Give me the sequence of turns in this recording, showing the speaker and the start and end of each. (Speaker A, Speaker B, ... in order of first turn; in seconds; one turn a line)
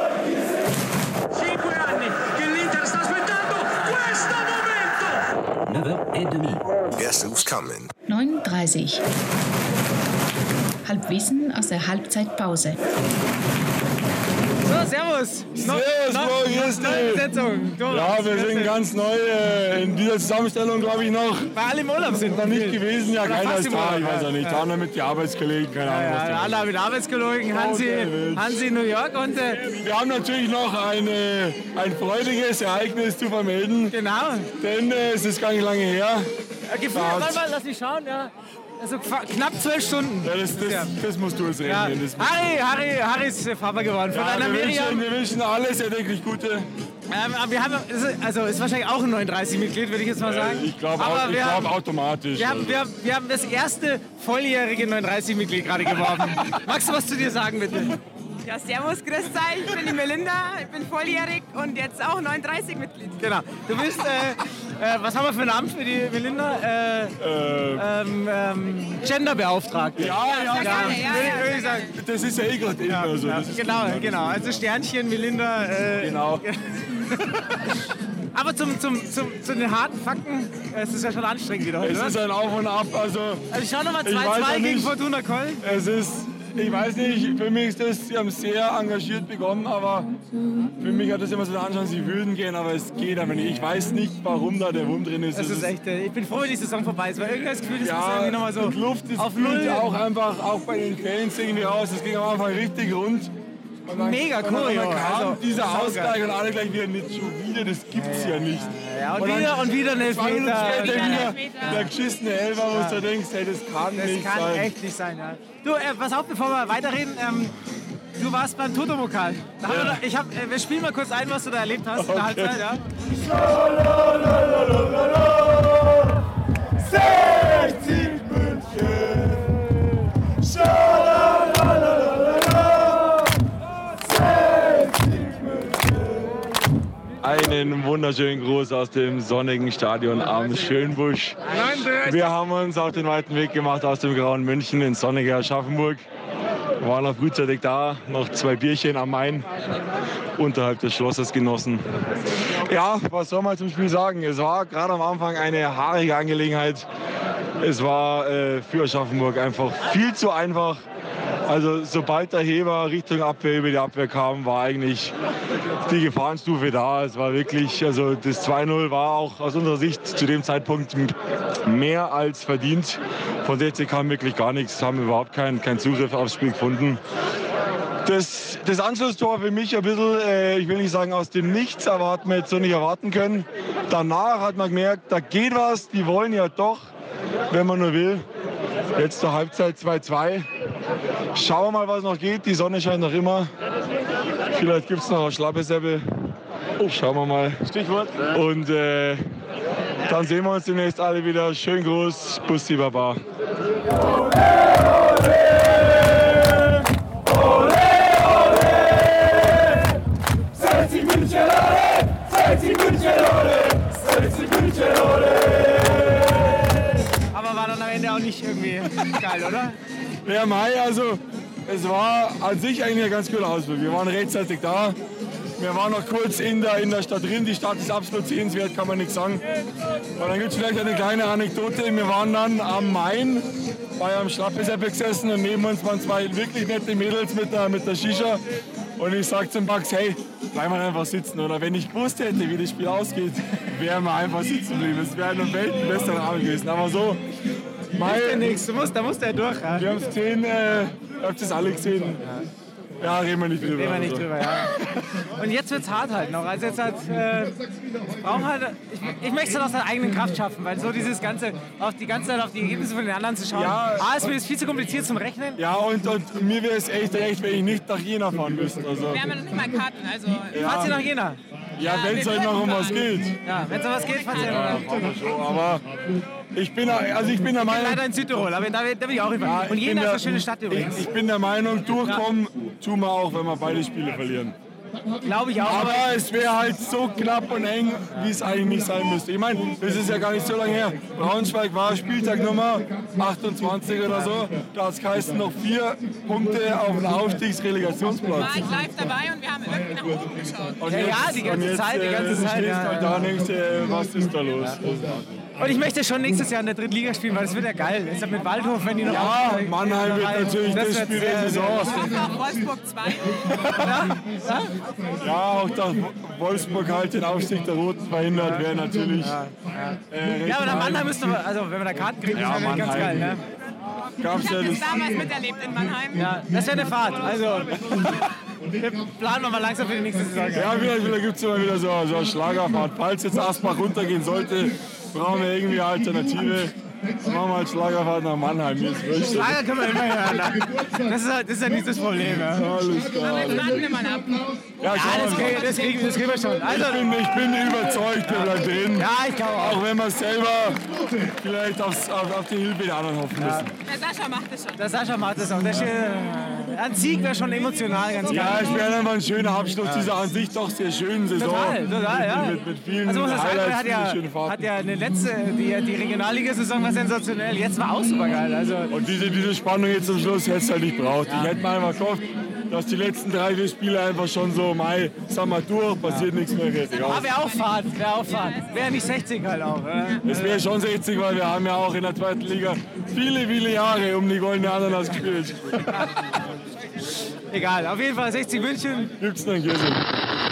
Speaker A: 2.6-3.0
Speaker B: 5.7-7.9
Speaker C: 8.1-9.0
Speaker C: 10.8-12.8
Speaker A: 14.6-18.8
Speaker D: 15.5-17.3
Speaker D: 17.9-21.5
Speaker A: 21.5-24.7
Speaker D: 22.2-26.7
Speaker A: 25.8-29.7
Speaker D: 27.5-28.6
Speaker D: 29.6-33.9
Speaker A: 33.9-34.5
Speaker D: 34.6-36.3
Speaker A: 36.7-40.9
Speaker D: 36.9-37.4
Speaker D: 40.2-42.4
Speaker A: 41.6-45.1
Speaker D: 44.1-46.7
Speaker A: 47.1-51.7
Speaker D: 50.2-52.9
Speaker A: 52.4-58.0
Speaker E: 58.4-63.2
Speaker A: 63.2-67.2
Speaker D: 67.2-67.9
Speaker A: 67.7-71.9
Speaker D: 70.0-71.2
Speaker E: 70.2-71.9
Speaker D: 71.9-74.6
Speaker A: 72.9-82.2
Speaker D: 76.0-76.4
Speaker D: 81.8-83.5
Speaker A: 83.5-85.6
Speaker D: 84.0-85.0
Speaker D: 85.6-90.1
Speaker D: 90.7-95.7
Speaker A: 95.3-99.9
Speaker D: 97.8-103.3
Speaker D: 103.9-114.7
Speaker A: 104.0-106.2
Speaker A: 107.9-111.9
Speaker E: 110.7-111.7
Speaker A: 112.7-113.0
Speaker A: 114.0-117.5
Speaker A: 118.2-122.8
Speaker D: 119.7-120.0
Speaker D: 122.0-122.6
Speaker D: 123.3-126.1
Speaker D: 127.0-129.3
Speaker D: 130.6-132.5
Speaker D: 134.5-135.6
Speaker D: 137.2-146.0
Speaker D: 146.8-149.5
Speaker D: 150.4-151.8
Speaker D: 152.4-156.9
Speaker D: 157.6-160.8
Speaker D: 161.5-165.1
Speaker D: 165.8-177.0
Speaker D: 178.0-186.9
Speaker D: 187.5-188.2
Speaker D: 188.9-190.5
Speaker D: 191.3-193.5
Speaker D: 194.5-196.0
Speaker D: 196.8-199.3
Speaker D: 200.0-203.2
Speaker D: 210.9-215.9
Speaker A: 217.3-219.8
Speaker D: 220.2-225.0
Speaker D: 225.6-229.4
Speaker D: 230.2-238.4
Speaker D: 239.0-247.2
Speaker D: 247.9-248.5
Speaker A: 247.9-249.9
Speaker D: 249.7-252.2
Speaker D: 253.0-254.3
Speaker A: 253.6-265.6
Speaker D: 263.5-264.3
Speaker D: 265.6-269.4
Speaker E: 269.1-270.6
Speaker D: 270.5-271.0
Speaker A: 270.5-271.4
Speaker D: 271.8-273.4
Speaker E: 271.8-273.1
Speaker A: 273.4-275.1
Speaker E: 273.9-274.8
Speaker D: 274.3-275.8
Speaker D: 276.5-278.0
Speaker A: 277.6-281.0
Speaker D: 279.4-284.5
Speaker A: 285.2-286.1
Speaker D: 285.6-298.7
Speaker E: 298.3-300.8
Speaker D: 300.8-305.2
Speaker A: 300.9-303.3
Speaker A: 305.6-312.3
Speaker D: 309.0-312.1
Speaker E: 311.9-313.5
Speaker D: 313.5-313.9
Speaker A: 313.7-314.8
Speaker D: 315.2-319.4
Speaker A: 318.4-318.6
Speaker A: 319.2-323.4
Speaker D: 320.1-321.4
Speaker D: 322.3-323.4
Speaker D: 324.2-325.1
Speaker E: 324.3-326.3
Speaker A: 326.1-328.1
Speaker A: 328.7-330.8
Speaker D: 330.5-339.6
Speaker A: 339.3-342.8
Speaker D: 342.2-343.8
Speaker E: 343.1-346.5
Speaker D: 344.8-345.6
Speaker A: 344.9-347.1
Speaker D: 346.6-353.7
Speaker A: 348.2-349.8
Speaker A: 353.3-353.7
Speaker E: 353.9-354.8
Speaker A: 354.8-358.8
Speaker D: 358.3-364.7
Speaker A: 359.8-360.1
Speaker A: 361.4-368.9
Speaker D: 368.9-377.4
Speaker A: 371.2-371.5
Speaker A: 376.0-376.3
Speaker E: 377.0-378.9
Speaker A: 377.0-380.6
Speaker D: 380.2-386.1
Speaker A: 387.5-389.1
Speaker D: 389.2-390.0